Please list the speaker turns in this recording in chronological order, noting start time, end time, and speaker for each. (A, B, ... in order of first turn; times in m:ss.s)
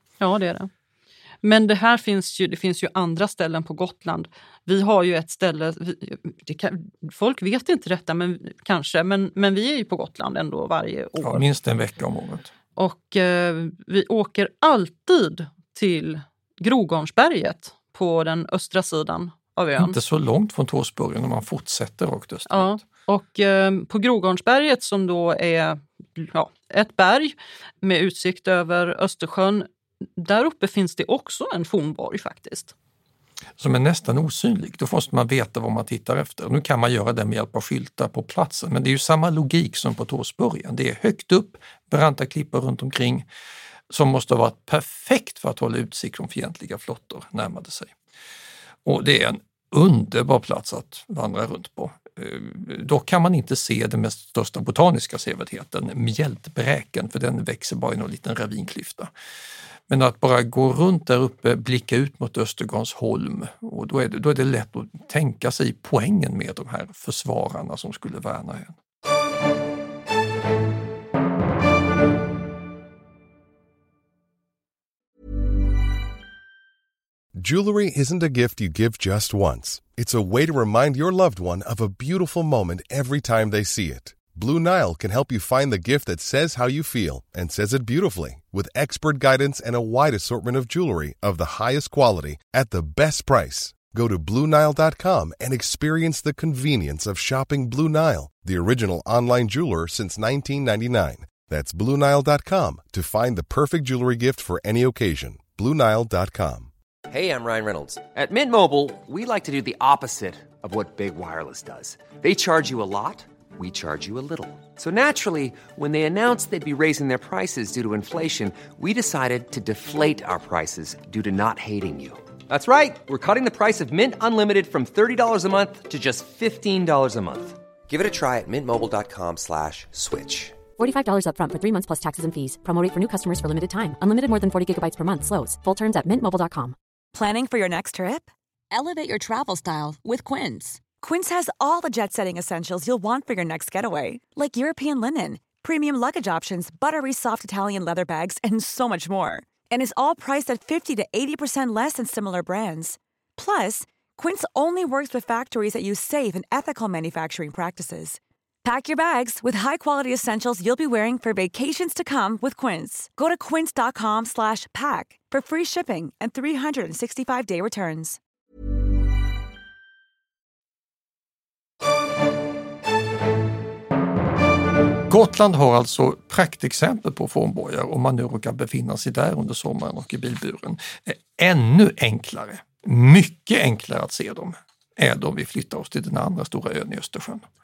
0:00.2-0:00.7 A
0:01.4-0:11.4 A
0:11.2-0:12.5 B
0:12.8-0:20.0 A
0:19.8-0:22.8 B
0:22.5-0:32.7 A
0:33.6-0:43.3 B
0:43.9-0:47.9 B
0:48.8-0:59.1 B
0:59.9-1:08.8 B
1:17.4-1:46.7 C
1:47.1-2:10.6 D
2:10.8-2:16.8 E
2:17.1-2:48.2 F
2:55.1-3:07.4 B